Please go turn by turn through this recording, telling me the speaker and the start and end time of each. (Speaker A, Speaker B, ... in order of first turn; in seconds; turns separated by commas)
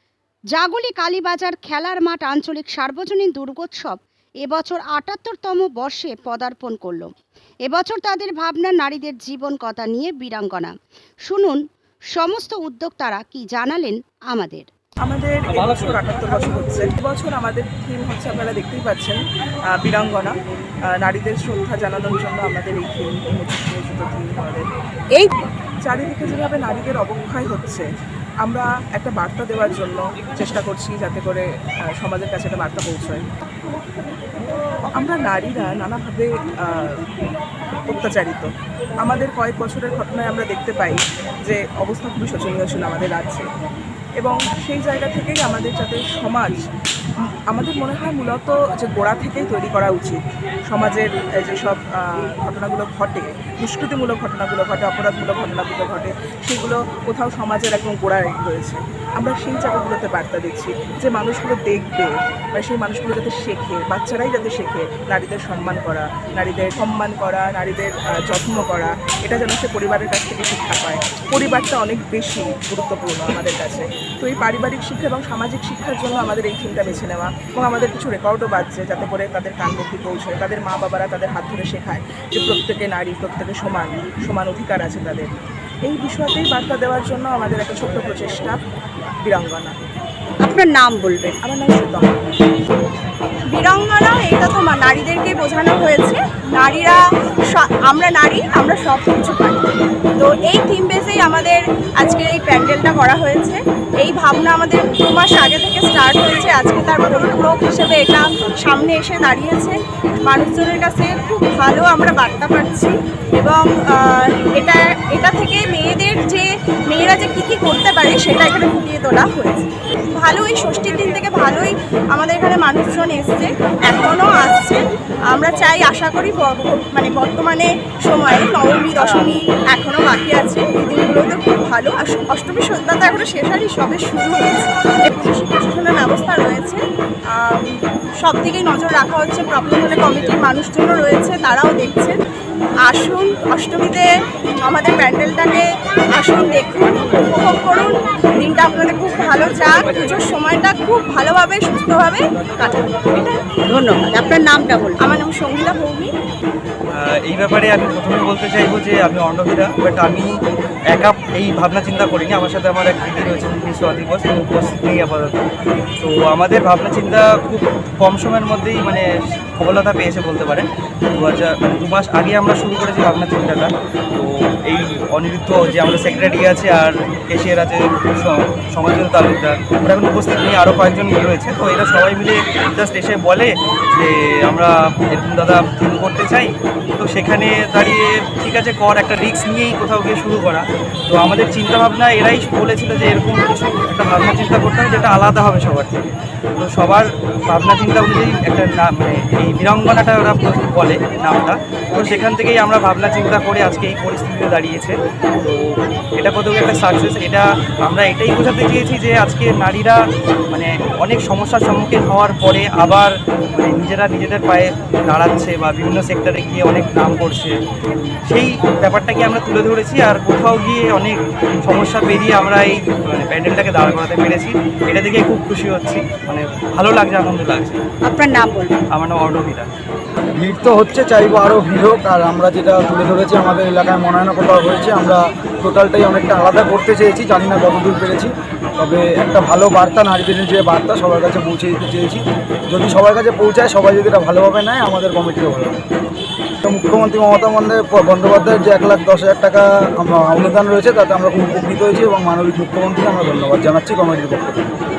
Speaker A: 0.5-7.1, Speaker A: 7.7-11.6, Speaker A: 12.2-14.7, Speaker B: 15.1-19.2, Speaker B: 19.7-20.4, Speaker B: 20.9-24.7, Speaker B: 25.9-27.9, Speaker B: 28.4-31.5, Speaker B: 32.0-33.2, Speaker B: 35.0-37.0, Speaker B: 37.9-38.5, Speaker B: 39.0-43.5, Speaker B: 44.2-46.6, Speaker B: 47.5-85.3, Speaker B: 85.9-88.6, Speaker B: 89.2-89.8, Speaker A: 90.4-91.4, Speaker B: 91.4-92.1, Speaker C: 93.5-136.8, Speaker C: 137.3-142.2, Speaker C: 142.9-144.1, Speaker C: 144.6-153.4, Speaker A: 153.7-155.0, Speaker C: 155.0-156.1, Speaker D: 156.9-160.3, Speaker D: 160.9-165.4, Speaker D: 166.0-169.1, Speaker D: 169.6-217.6, Speaker D: 218.3-227.8, Speaker A: 228.0-228.8, Speaker D: 228.9-229.7, Speaker E: 230.3-245.8, Speaker E: 246.6-254.7